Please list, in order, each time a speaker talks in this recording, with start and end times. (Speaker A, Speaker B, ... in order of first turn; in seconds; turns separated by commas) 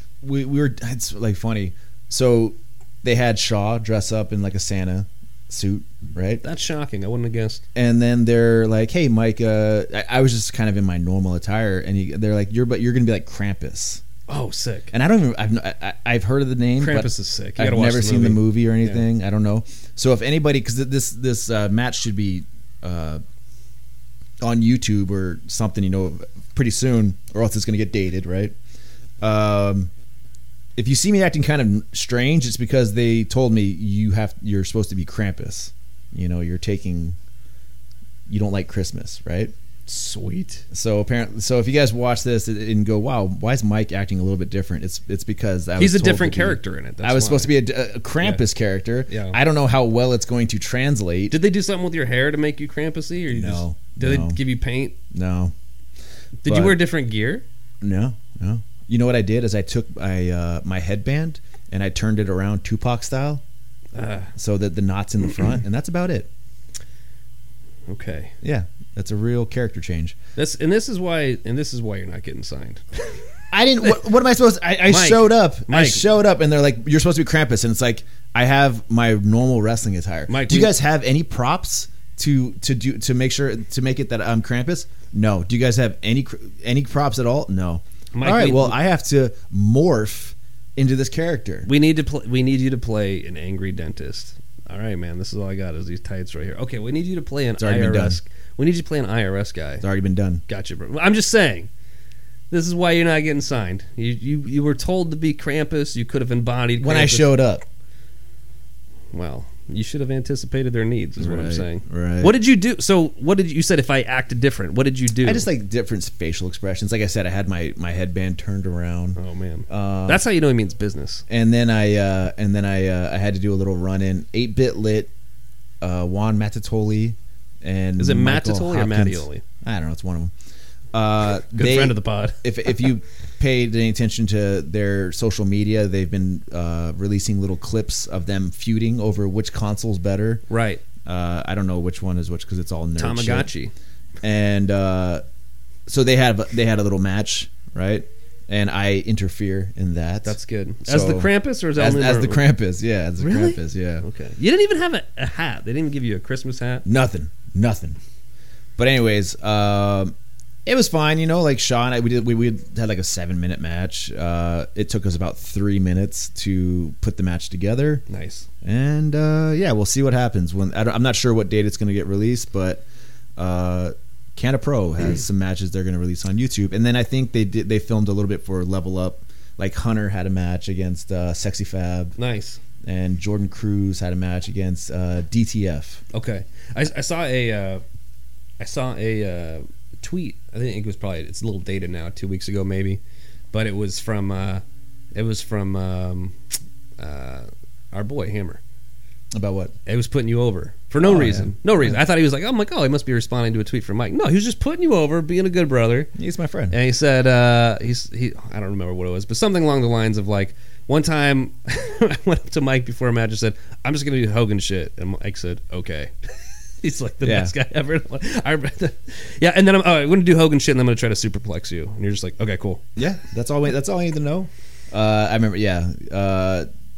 Speaker A: 0.2-6.4, Speaker B: 6.4-7.6, Speaker A: 7.8-14.0, Speaker B: 14.3-14.9, Speaker A: 14.9-23.2, Speaker B: 16.8-19.0, Speaker A: 24.4-28.6, Speaker A: 29.2-29.9, Speaker A: 30.8-37.2, Speaker A: 38.3-39.5, Speaker B: 39.9-40.6, Speaker A: 40.7-51.4, Speaker B: 45.8-47.5, Speaker B: 49.1-49.4, Speaker B: 51.3-55.0, Speaker A: 53.3-54.4, Speaker A: 55.1-55.5, Speaker B: 56.4-57.4, Speaker A: 56.5-56.8, Speaker A: 57.8-63.4, Speaker B: 63.9-64.3, Speaker A: 64.4-66.3, Speaker B: 67.9-68.3, Speaker A: 68.4-70.2, Speaker B: 70.4-72.8, Speaker A: 73.5-91.7, Speaker B: 74.8-76.0, Speaker B: 80.3-80.7, Speaker B: 88.1-88.8, Speaker B: 91.7-99.8, Speaker A: 97.6-98.2, Speaker A: 99.8-100.4, Speaker B: 100.5-101.7, Speaker B: 102.5-107.3, Speaker A: 106.8-107.7, Speaker B: 109.1-115.5, Speaker A: 111.2-112.3, Speaker A: 115.2-120.2, Speaker B: 119.2-121.2, Speaker A: 121.3-125.1, Speaker A: 125.8-130.3, Speaker B: 128.0-129.4, Speaker A: 130.9-140.4, Speaker B: 131.6-132.4, Speaker B: 140.5-140.8, Speaker A: 141.1-143.5, Speaker B: 143.0-143.7, Speaker A: 144.2-145.2, Speaker A: 145.9-154.1, Speaker B: 150.2-152.4, Speaker B: 153.2-156.8, Speaker A: 156.8-158.0, Speaker A: 158.8-160.1, Speaker A: 160.7-168.0, Speaker B: 168.1-168.5, Speaker A: 168.6-172.8, Speaker A: 173.4-182.2, Speaker B: 182.2-182.6, Speaker A: 182.8-186.0, Speaker B: 186.1-187.8, Speaker B: 188.6-193.0, Speaker B: 193.5-194.6, Speaker B: 195.1-196.3, Speaker B: 197.0-198.6, Speaker A: 199.3-199.7, Speaker B: 199.9-206.1, Speaker A: 201.0-202.0, Speaker A: 206.2-206.8, Speaker B: 206.7-222.8, Speaker A: 217.2-217.5, Speaker A: 223.0-226.7